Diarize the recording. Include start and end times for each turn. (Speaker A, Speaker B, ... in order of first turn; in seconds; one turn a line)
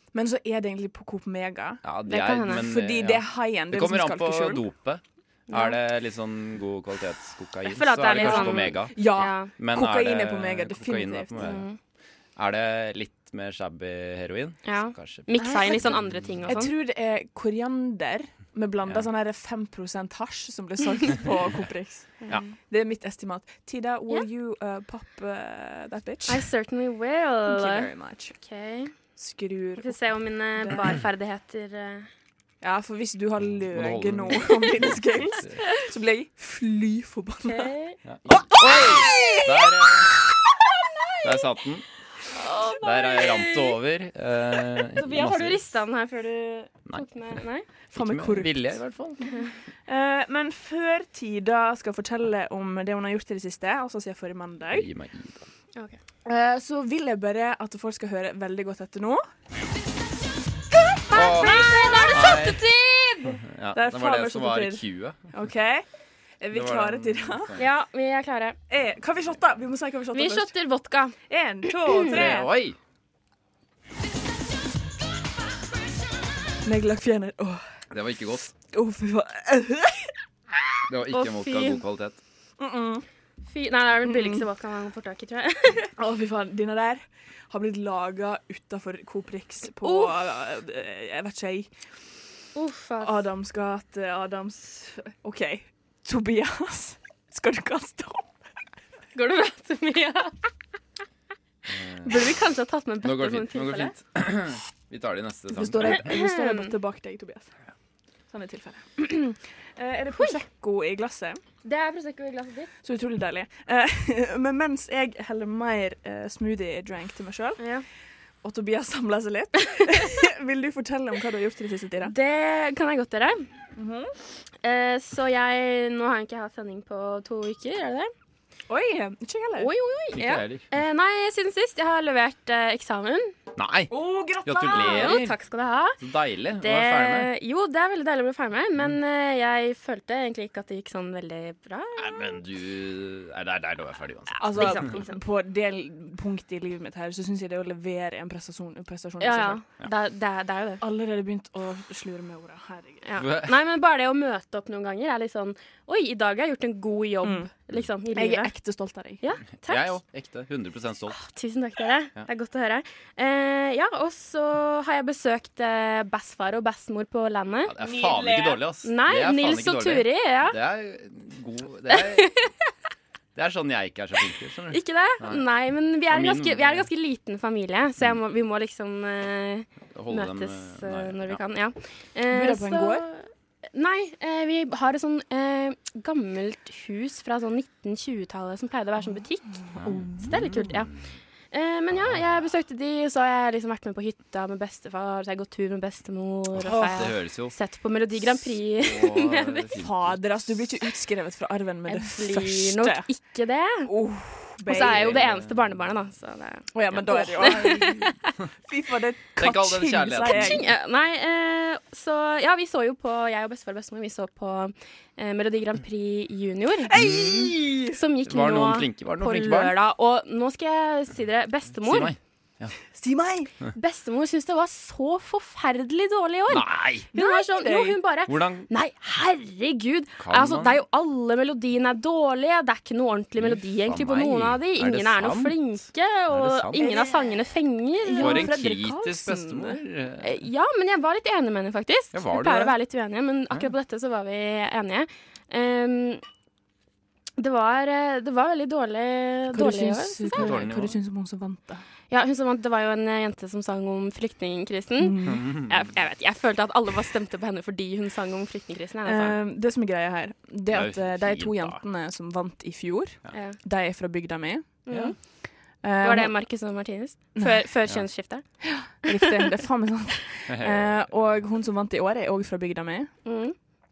Speaker A: 0.1-1.9
Speaker B: 1.8-11.7
Speaker C: 2.1-2.6
Speaker A: 2.5-4.7
Speaker C: 5.5-5.8
Speaker C: 7.7-9.5
Speaker A: 8.1-11.5
Speaker C: 11.4-11.8
Speaker B: 12.3-16.4
Speaker C: 14.6-16.7
Speaker A: 15.4-15.8
Speaker A: 16.4-26.4
Speaker C: 22.2-22.5
Speaker C: 26.3-28.9
Speaker A: 27.4-28.3
Speaker A: 29.1-30.9
Speaker C: 29.8-32.1
Speaker A: 32.6-37.7
Speaker B: 33.4-35.6
Speaker C: 37.4-38.0
Speaker B: 38.0-40.1
Speaker A: 38.3-40.2
Speaker B: 41.2-41.8
Speaker C: 42.3-43.8
Speaker B: 42.8-45.6
Speaker C: 45.0-47.7
Speaker B: 46.9-47.4
Speaker A: 47.9-48.8
Speaker B: 47.9-49.2
Speaker A: 49.9-54.9
Speaker B: 54.7-55.4
Speaker A: 56.2-59.2
Speaker C: 61.1-63.4
Speaker B: 61.1-62.6
Speaker A: 61.4-62.1
Speaker B: 63.4-65.2
Speaker A: 63.7-65.8
Speaker A: 66.4-67.5
Speaker B: 66.5-67.7
Speaker C: 67.6-68.6
Speaker A: 68.7-70.5
Speaker C: 70.1-71.1
Speaker A: 71.3-72.5
Speaker B: 72.1-72.8
Speaker A: 76.6-77.6
Speaker B: 77.9-78.5
Speaker A: 78.7-80.1
Speaker B: 80.9-82.2
Speaker C: 81.1-81.8
Speaker A: 82.6-83.0
Speaker C: 83.5-85.9
Speaker A: 84.0-84.4
Speaker A: 86.0-91.7
Speaker C: 89.8-90.1
Speaker C: 92.5-93.2
Speaker A: 93.0-98.3
Speaker C: 99.1-100.3
Speaker B: 101.7-102.4
Speaker C: 102.0-103.9
Speaker B: 103.0-106.1
Speaker A: 105.5-107.5
Speaker C: 105.9-106.7
Speaker A: 108.3-111.4
Speaker C: 111.6-112.7
Speaker A: 112.8-117.7
Speaker C: 117.6-117.8
Speaker A: 118.4-122.1
Speaker C: 122.0-123.5
Speaker A: 123.7-124.1
Speaker C: 124.6-128.1
Speaker A: 128.7-129.7
Speaker C: 129.6-133.3
Speaker B: 130.1-130.7
Speaker B: 133.6-135.4
Speaker A: 133.9-135.2
Speaker C: 134.7-136.0
Speaker B: 136.0-137.3
Speaker C: 136.6-142.3
Speaker B: 142.0-144.9
Speaker A: 144.4-149.6
Speaker C: 144.5-145.2
Speaker C: 149.2-150.8
Speaker A: 150.8-153.0
Speaker C: 153.0-158.5
Speaker B: 153.2-153.5
Speaker A: 157.2-157.5
Speaker A: 158.1-159.2
Speaker C: 159.2-160.0
Speaker B: 159.6-161.2
Speaker C: 161.1-167.7
Speaker B: 167.7-172.3
Speaker A: 167.8-168.6
Speaker C: 168.8-170.6
Speaker C: 171.9-172.5
Speaker B: 173.3-175.4
Speaker C: 174.7-190.9
Speaker B: 176.1-176.9
Speaker B: 179.9-181.4
Speaker A: 182.3-183.1
Speaker B: 189.8-191.0
Speaker A: 189.8-190.2
Speaker C: 191.5-199.7
Speaker B: 196.5-197.6
Speaker A: 196.7-196.9
Speaker B: 198.2-200.2
Speaker A: 199.8-203.1
Speaker C: 201.9-203.9
Speaker A: 203.8-205.1
Speaker C: 204.7-208.1
Speaker B: 204.7-205.8
Speaker A: 206.7-208.1
Speaker A: 208.7-210.6
Speaker B: 209.4-210.6
Speaker C: 210.2-216.9
Speaker A: 216.9-218.0
Speaker B: 216.9-217.6
Speaker C: 217.9-222.1
Speaker B: 218.2-219.7
Speaker B: 221.8-222.7
Speaker A: 222.9-223.5
Speaker C: 223.7-238.6
Speaker B: 226.5-227.1
Speaker A: 227.1-228.0
Speaker B: 228.3-228.7
Speaker B: 230.2-230.8
Speaker B: 233.4-236.8
Speaker A: 236.8-237.3
Speaker A: 238.0-239.8
Speaker B: 238.2-240.4
Speaker C: 240.2-246.2
Speaker B: 242.1-242.7
Speaker C: 247.4-250.6
Speaker A: 249.5-251.8
Speaker B: 250.3-250.9
Speaker C: 252.1-259.4
Speaker A: 255.0-255.4
Speaker B: 255.3-255.7
Speaker A: 259.0-265.2
Speaker B: 260.7-261.8
Speaker C: 263.3-263.6
Speaker C: 264.9-269.5
Speaker B: 264.9-265.1
Speaker A: 265.8-266.4
Speaker A: 267.4-267.6
Speaker A: 268.6-273.1
Speaker B: 270.5-271.1
Speaker C: 273.2-273.5